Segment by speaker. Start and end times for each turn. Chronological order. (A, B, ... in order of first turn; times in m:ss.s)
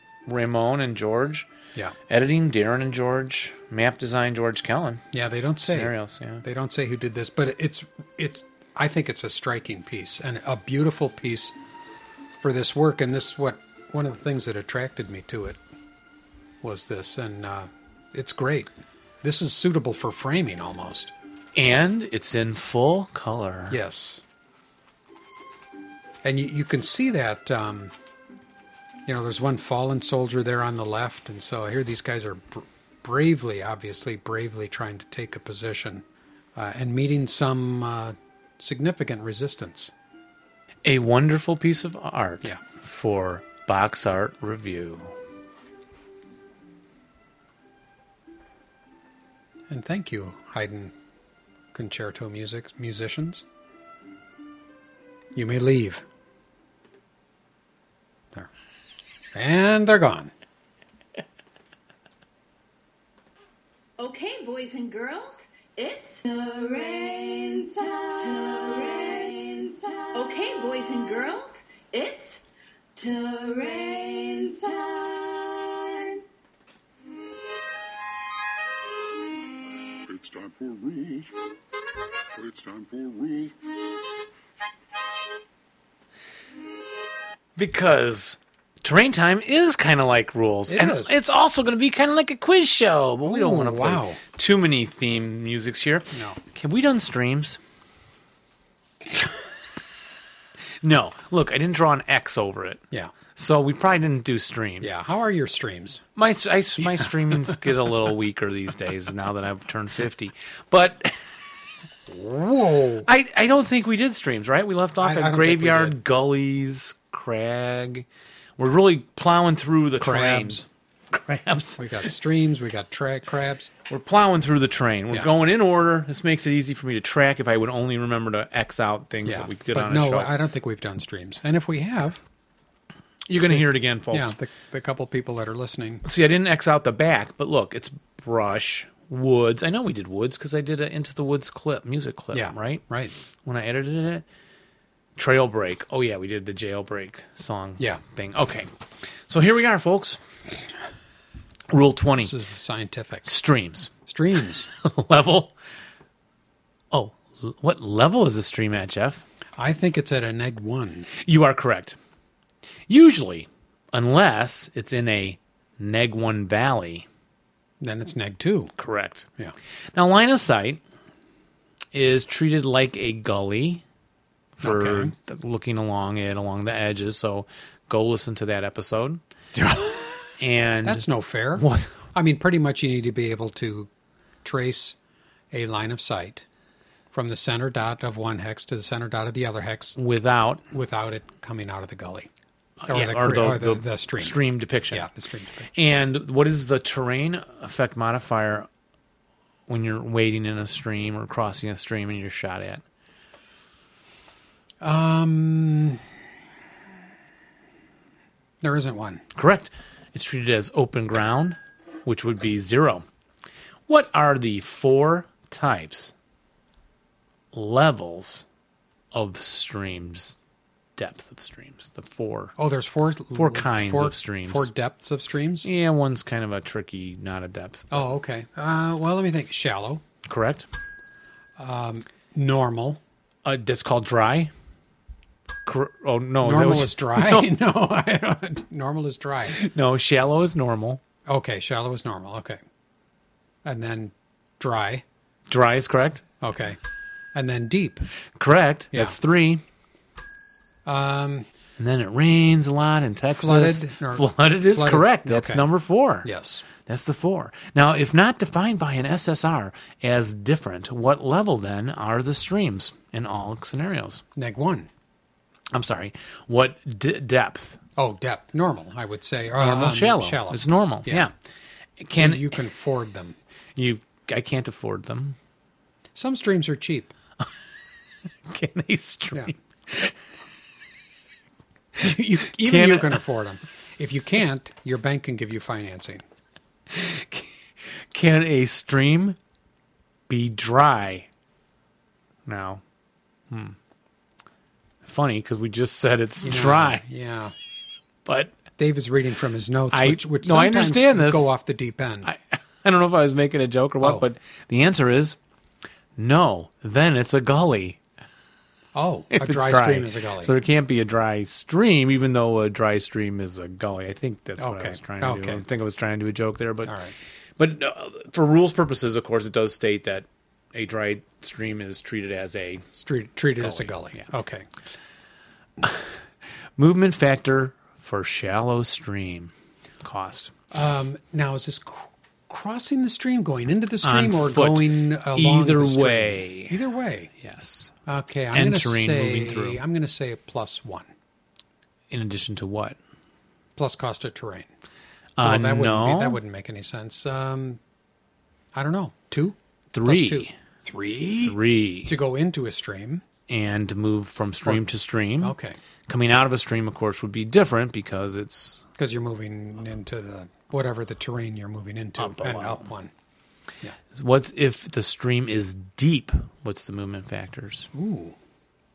0:00.2-0:01.5 A
0:02.1-0:05.0 A
0:05.1-0:11.5 B
0:05.6-0:06.4 A
0:12.4-0:15.6 B
0:16.6-0:18.7 B
0:19.2-0:21.1 B
0:21.5-0:23.8 A
0:23.7-0:24.2 B
0:26.2-0:27.9 B
0:29.0-0:36.0 B
0:36.6-0:39.9 B
0:40.8-0:45.1 A
0:49.7-0:50.9 B
0:51.7-0:53.4 B
0:55.3-0:56.0 B
0:59.3-1:00.3 B
1:04.0-1:12.4 C
1:13.0-1:16.2 C
1:20.0-1:21.3 D
1:22.3-1:23.6 D
1:27.6-1:37.6 A
1:30.7-1:31.2 B
1:33.2-1:34.2 B
1:36.1-1:36.4 B
1:40.8-1:42.8 A
1:43.4-1:45.0 A
1:44.8-1:46.0 B
1:46.2-1:51.4 A
1:52.1-1:53.1 B
1:53.0-1:58.0 A
1:55.0-1:56.0 B
1:58.6-2:01.9 A
2:00.0-2:00.6 B
2:01.8-2:03.7 B
2:03.9-2:10.3 A
2:09.2-2:12.2 B
2:13.3-2:14.4 A
2:13.5-2:16.0 B
2:16.0-2:22.8 A
2:22.3-2:23.1 B
2:23.4-2:24.2 A
2:25.2-2:28.7 A
2:29.3-2:30.2 A
2:31.7-2:32.3 A
2:32.2-2:33.3 B
2:33.2-2:33.9 A
2:34.0-2:34.7 B
2:34.7-2:35.5 A
2:36.9-2:39.2 A
2:39.6-2:41.1 B
2:41.1-2:42.0 A
2:42.9-2:47.0 A
2:47.8-2:48.7 B
2:48.8-2:49.3 A
2:49.9-2:50.8 A
2:51.9-2:53.8 A
2:54.6-2:59.2 A
2:54.6-2:55.1 B
2:59.5-3:00.3 B
3:00.4-3:02.0 A
3:00.8-3:03.9 B
3:04.4-3:05.0 B
3:05.5-3:06.4 B
3:07.1-3:10.0 B
3:10.0-3:10.6 A
3:10.7-3:12.3 B
3:12.8-3:15.1 A
3:12.9-3:14.4 B
3:14.9-3:15.7 B
3:15.7-3:18.7 A
3:19.7-3:22.8 A
3:24.8-3:26.0 B
3:28.6-3:29.2 B
3:29.3-3:33.0 A
3:33.9-3:36.1 A
3:37.5-3:38.4 A
3:39.1-3:40.4 A
3:41.0-3:42.5 A
3:42.6-3:45.7 B
3:43.3-3:44.7 A
3:45.6-3:48.1 A
3:47.9-3:50.0 B
3:50.2-3:50.7 A
3:51.6-3:53.0 B
3:53.4-3:54.5 A
3:55.6-3:57.5 A
3:56.4-3:59.6 B
3:59.5-4:01.0 A
4:01.3-4:02.6 B
4:03.6-4:05.0 B
4:05.5-4:06.2 A
4:06.4-4:06.8 B
4:07.3-4:08.1 B
4:08.3-4:09.6 A
4:08.9-4:09.2 B
4:10.8-4:11.5 B
4:11.8-4:24.2 A
4:13.3-4:15.7 B
4:16.2-4:16.6 B
4:24.4-4:24.9 B
4:25.7-4:27.8 A
4:28.0-4:31.3 B
4:29.6-4:31.3 A
4:32.0-4:32.6 A
4:32.1-4:33.4 B
4:33.8-4:35.4 A
4:36.1-4:37.1 B
4:38.4-4:40.2 A
4:42.0-4:46.2 B
4:42.1-4:43.2 A
4:46.9-4:49.4 A
4:50.3-4:51.3 A
4:52.4-4:52.8 A
4:53.5-4:53.8 A
4:55.0-4:57.0 A
4:56.4-4:57.5 B
4:58.2-4:58.6 A
4:58.8-5:02.3 B
4:59.9-5:01.5 A
5:02.2-5:05.4 A
5:06.2-5:08.0 A
5:08.9-5:10.5 B
5:09.3-5:17.0 A
5:14.6-5:15.6 B
5:16.8-5:17.1 B
5:17.6-5:22.8 A
5:22.9-5:24.7 B
5:23.6-5:24.2 A
5:25.8-5:26.2 A
5:26.8-5:30.5 A
5:30.7-5:37.3 B
5:34.0-5:36.8 A
5:37.4-5:37.9 A
5:38.0-5:41.1 B
5:38.5-5:39.8 A
5:42.1-5:43.0 A
5:43.8-5:44.7 B
5:45.4-5:46.4 A
5:45.4-5:47.8 B
5:48.7-5:53.2 B
5:49.9-5:50.5 A
5:51.4-5:52.1 A
5:53.5-5:55.6 A
5:55.4-5:55.8 B
5:56.1-5:58.8 A
5:59.0-6:03.1 B
6:02.2-6:02.9 A
6:04.1-6:07.9 A
6:07.9-6:08.4 B